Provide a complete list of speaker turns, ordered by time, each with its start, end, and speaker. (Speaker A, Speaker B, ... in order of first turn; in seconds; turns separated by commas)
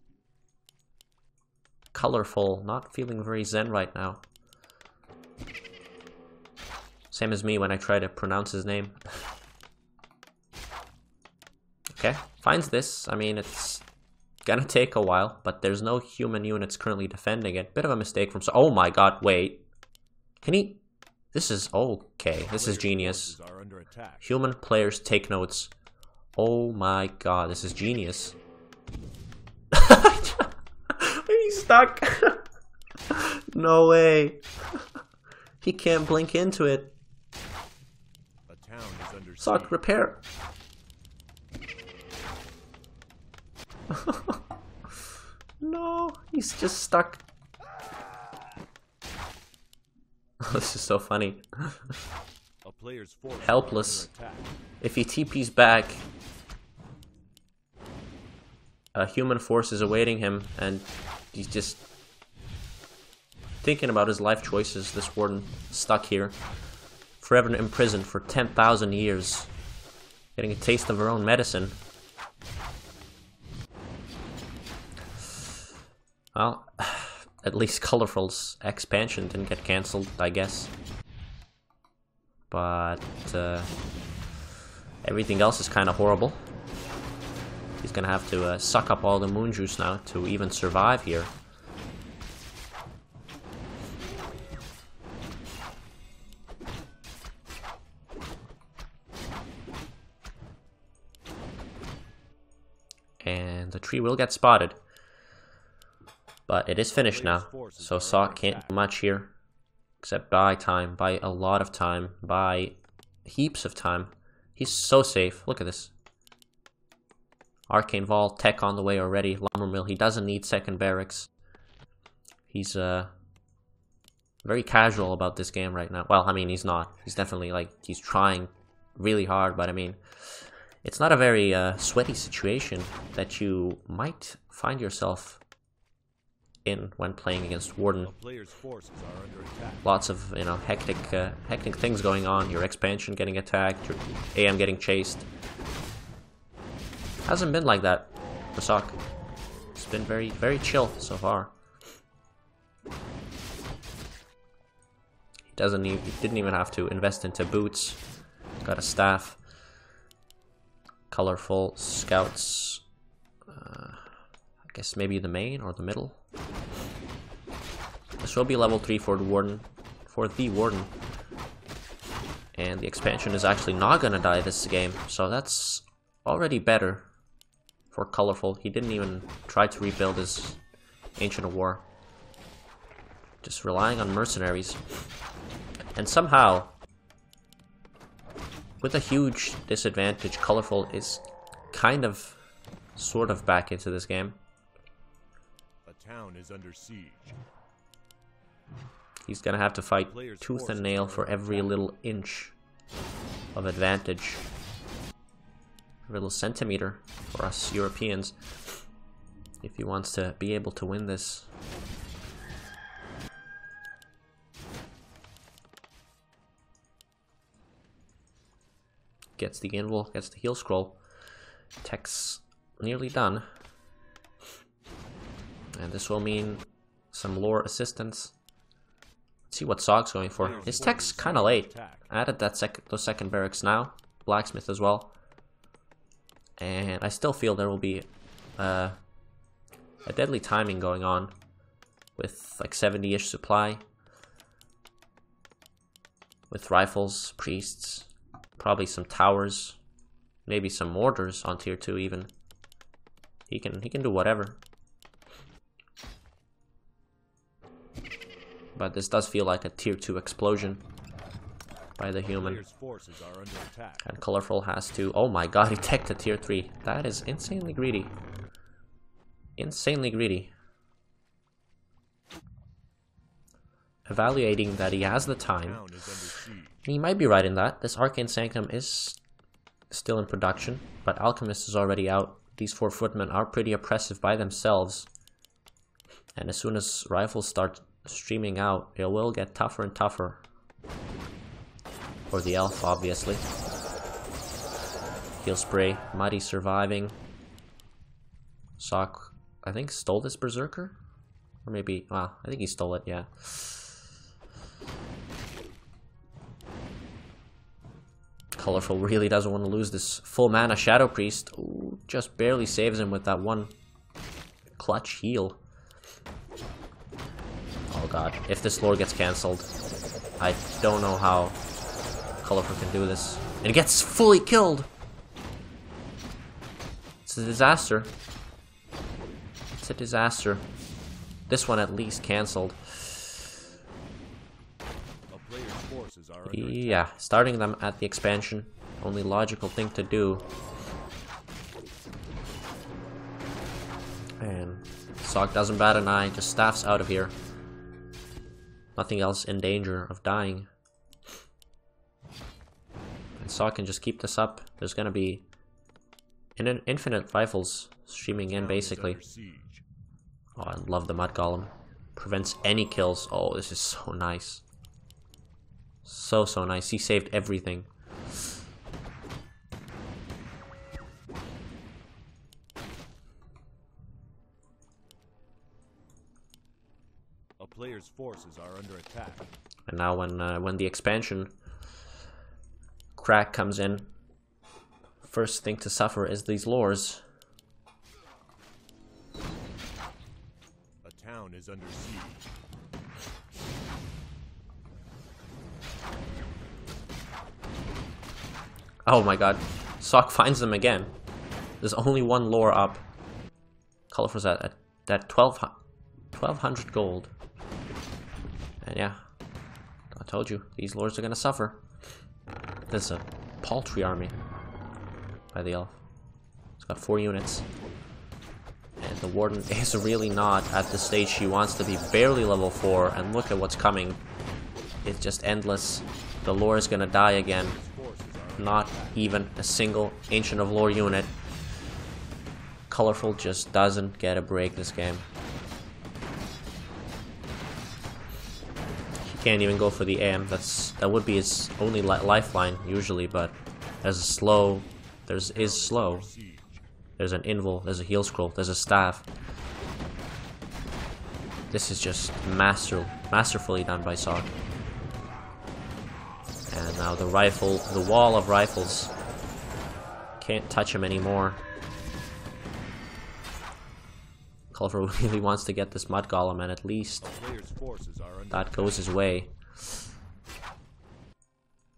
Speaker A: 1.9-4.2, Speaker A: 7.1-9.0, Speaker A: 12.0-13.8, Speaker A: 14.4-19.7, Speaker A: 20.4-20.8, Speaker A: 21.3-23.4, Speaker B: 22.4-24.4, Speaker A: 24.2-25.7, Speaker A: 26.4-28.4, Speaker A: 29.7-32.4, Speaker A: 33.1-34.8, Speaker A: 35.6-36.9, Speaker B: 38.5-39.8, Speaker A: 39.4-40.2, Speaker A: 43.9-44.4, Speaker A: 45.6-47.2, Speaker A: 50.4-51.9, Speaker B: 52.6-54.6, Speaker A: 53.4-54.1, Speaker A: 54.8-56.0, Speaker A: 58.9-61.8, Speaker A: 63.6-66.4, Speaker A: 67.2-69.5, Speaker A: 70.4-71.8, Speaker A: 76.3-80.7, Speaker A: 82.5-83.7, Speaker A: 85.0-86.4, Speaker A: 87.8-91.3, Speaker A: 103.2-104.8, Speaker A: 106.5-109.3, Speaker B: 106.9-108.9, Speaker A: 110.0-115.9, Speaker A: 117.7-121.3, Speaker A: 122.5-123.1, Speaker A: 124.4-130.0, Speaker A: 130.8-135.4, Speaker A: 136.6-138.1, Speaker B: 138.0-139.9, Speaker A: 139.8-145.3, Speaker A: 147.2-149.0, Speaker A: 149.8-151.5, Speaker A: 155.5-158.0, Speaker A: 158.6-159.4, Speaker A: 161.1-162.8, Speaker A: 163.5-164.1, Speaker A: 164.7-166.2, Speaker A: 168.2-170.9, Speaker A: 172.6-177.1, Speaker A: 177.9-180.6, Speaker A: 181.2-181.9, Speaker A: 183.4-184.8, Speaker A: 185.9-186.8, Speaker A: 188.8-192.4, Speaker A: 192.9-194.4, Speaker B: 195.9-197.4, Speaker A: 199.3-202.6, Speaker B: 200.1-201.8, Speaker A: 203.6-204.4, Speaker A: 206.1-208.4, Speaker A: 209.6-211.5, Speaker A: 219.4-221.0, Speaker A: 221.8-223.4, Speaker A: 225.8-228.3, Speaker A: 229.5-235.1, Speaker B: 230.4-232.1, Speaker A: 236.6-238.1, Speaker A: 238.6-239.0, Speaker A: 240.1-241.3, Speaker A: 242.2-243.8, Speaker A: 246.5-249.8, Speaker A: 250.5-252.3, Speaker A: 253.5-254.6, Speaker A: 258.8-260.8, Speaker A: 262.0-262.6, Speaker B: 262.2-264.1, Speaker A: 264.0-268.1, Speaker A: 269.6-270.5, Speaker A: 274.1-275.8, Speaker B: 275.6-276.9, Speaker A: 276.9-279.2, Speaker A: 279.9-285.1, Speaker A: 286.4-290.4, Speaker A: 292.3-293.4, Speaker A: 295.4-297.2, Speaker A: 298.8-301.0, Speaker A: 301.6-303.9, Speaker A: 308.6-313.7, Speaker A: 314.8-315.6, Speaker A: 317.9-319.7, Speaker A: 320.4-321.6, Speaker A: 322.4-324.9, Speaker A: 327.3-328.1, Speaker A: 329.8-330.7, Speaker A: 331.5-333.5, Speaker B: 335.3-337.1, Speaker A: 336.4-340.5, Speaker A: 344.4-347.4, Speaker A: 348.9-350.7, Speaker A: 353.4-355.4, Speaker A: 356.6-359.2, Speaker B: 358.5-359.8, Speaker A: 360.6-364.6, Speaker A: 366.1-367.9, Speaker B: 377.6-379.5, Speaker A: 379.9-381.5, Speaker A: 383.1-384.1, Speaker A: 385.2-387.2, Speaker B: 391.0-392.5, Speaker A: 399.1-401.1, Speaker A: 401.8-403.0, Speaker A: 404.1-405.8, Speaker A: 406.3-407.3, Speaker A: 408.8-409.2, Speaker A: 410.1-411.8, Speaker A: 412.9-414.4, Speaker A: 415.5-416.0, Speaker A: 416.8-417.6, Speaker A: 419.0-424.2, Speaker A: 425.1-427.8, Speaker B: 427.4-429.4, Speaker A: 428.6-431.3, Speaker A: 432.9-435.3, Speaker A: 439.2-446.3, Speaker B: 445.5-446.8, Speaker A: 447.2-449.3, Speaker A: 451.7-454.6, Speaker A: 456.7-459.1, Speaker A: 460.4-461.6, Speaker A: 464.7-467.3, Speaker B: 467.2-469.1, Speaker A: 468.5-469.6